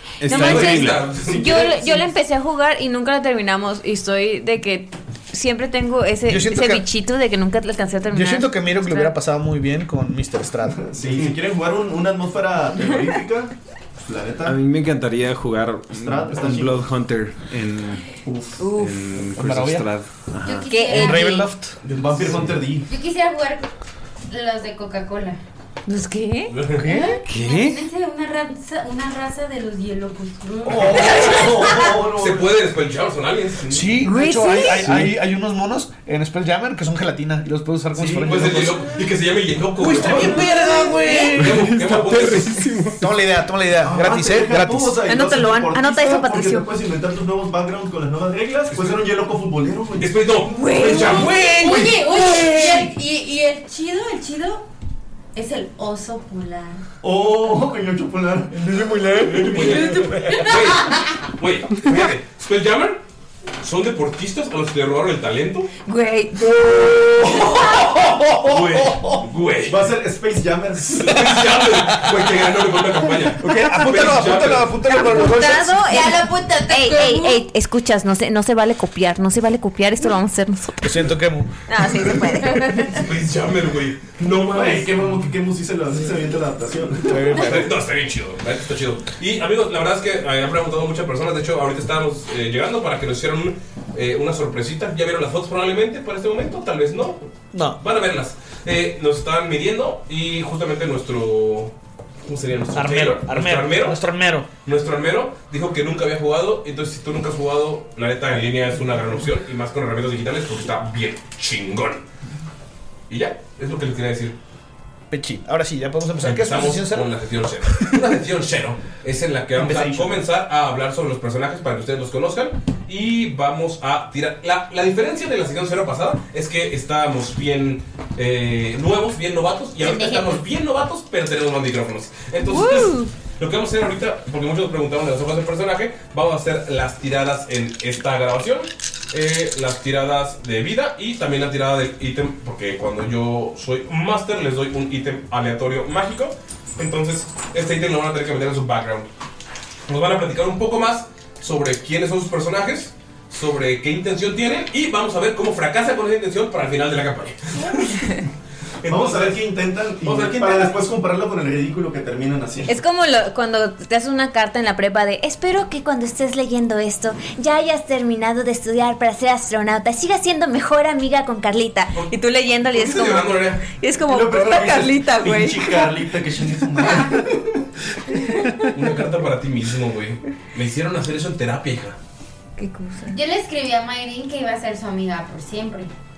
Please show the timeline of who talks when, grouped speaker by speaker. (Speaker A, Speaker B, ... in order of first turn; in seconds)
Speaker A: 0.2-1.1, 14.4-18.1, 18.7-20.7, 26.9-27.8, 34.8-35.2, 40.4-40.7, 41.3-43.1
Speaker B: 0.2-9.1, 18.6-19.0, 20.6-21.5, 25.9-27.1, 34.0-34.9, 45.0-46.7, 50.5-51.2, 65.8-66.4, 74.9-80.9, 81.7-82.9, 132.4-133.1, 162.7-175.8, 182.6-183.2
Speaker C: 0.3-1.4, 26.5-26.9, 32.0-34.0, 38.0-40.5, 41.4-42.5, 50.0-51.9, 59.2-63.0, 63.6-65.7, 68.4-69.9, 70.9-74.7, 82.9-84.9, 87.3-97.3, 97.8-101.7, 102.2-104.0, 104.6-112.0, 113.1-114.4, 116.2-149.1, 149.9-158.1, 158.8-159.4, 160.0-160.8, 171.9-173.6, 178.7-182.0
Speaker D: 1.1-2.1, 10.8-13.5, 14.0-14.6, 15.9-16.9, 18.2-18.6, 21.9-22.9, 30.6-32.6, 38.2-38.5, 43.8-52.4, 57.0-58.7, 59.3-59.8, 69.6-71.5, 73.5-74.6, 84.5-87.5, 158.8-162.8, 174.1-177.6
Speaker E: 6.3-6.8, 8.1-10.8, 19.3-19.9, 20.9-21.8, 26.8-27.1, 33.7-38.8, 39.8-41.8, 43.0-45.0, 58.5-60.5, 66.4-69.2, 73.4-75.8, 80.8-81.5, 87.1-87.7, 97.5-97.8, 102.7-104.5, 115.1-117.1, 119.6-120.2
Speaker F: 20.4-21.4, 22.9-23.7, 24.3-25.4, 27.3-32.0, 50.8-54.6, 55.3-56.8, 60.4-61.0, 75.0-77.4, 129.8-130.4, 176.8-177.3, 183.1-185.9